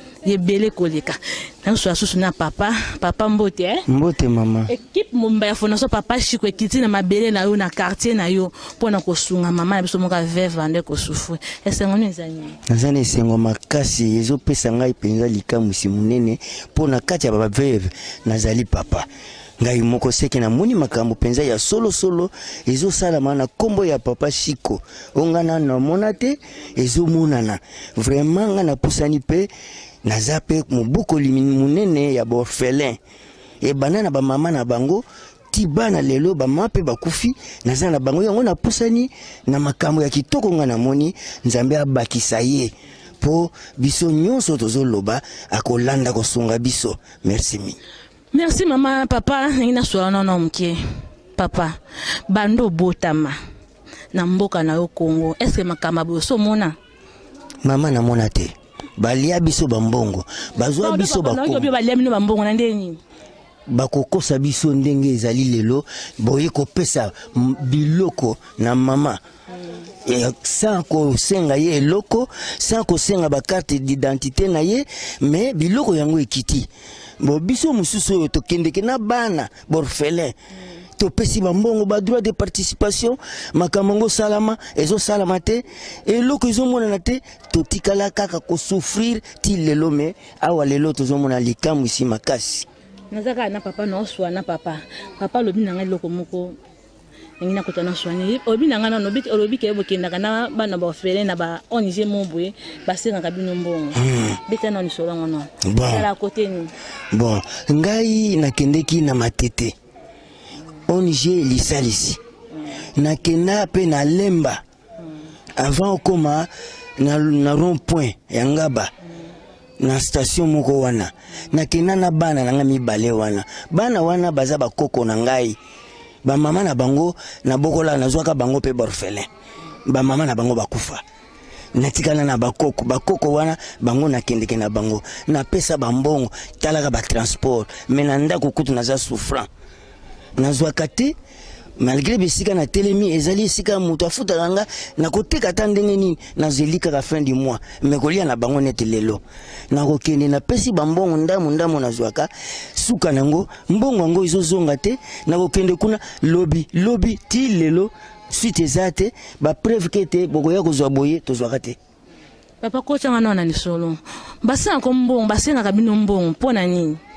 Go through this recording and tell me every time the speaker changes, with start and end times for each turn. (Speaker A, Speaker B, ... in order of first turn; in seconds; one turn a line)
Speaker A: 0.2-3.8
Speaker B: 3.9-4.7
Speaker A: 4.7-12.6
Speaker B: 12.7-19.1
Speaker B: 19.6-29.5
Speaker B: 30.0-33.0
Speaker B: 33.6-47.8
Speaker A: 48.3-50.8
Speaker A: 51.4-51.8
Speaker A: 52.3-53.4
Speaker A: 54.1-56.7
Speaker B: 57.6-61.6
Speaker A: 60.8-63.0
Speaker B: 63.7-69.2
Speaker B: 70.0-76.7
Speaker B: 77.2-80.3
Speaker B: 81.0-92.7
Speaker A: 93.1-96.5
Speaker A: 97.4-106.7
Speaker B: 104.0-104.4
Speaker B: 105.7-106.1
Speaker B: 107.1-109.7
Speaker B: 110.9-112.2
Speaker B: 113.0-114.6
Speaker B: 115.6-116.5
Speaker B: 117.0-118.9
Speaker B: 119.8-125.5
Speaker B: 126.2-129.3
Speaker B: 129.9-131.0
Speaker B: 131.8-139.5
Speaker B: 140.4-141.1
Speaker B: 141.8-161.8
Speaker A: 162.6-167.0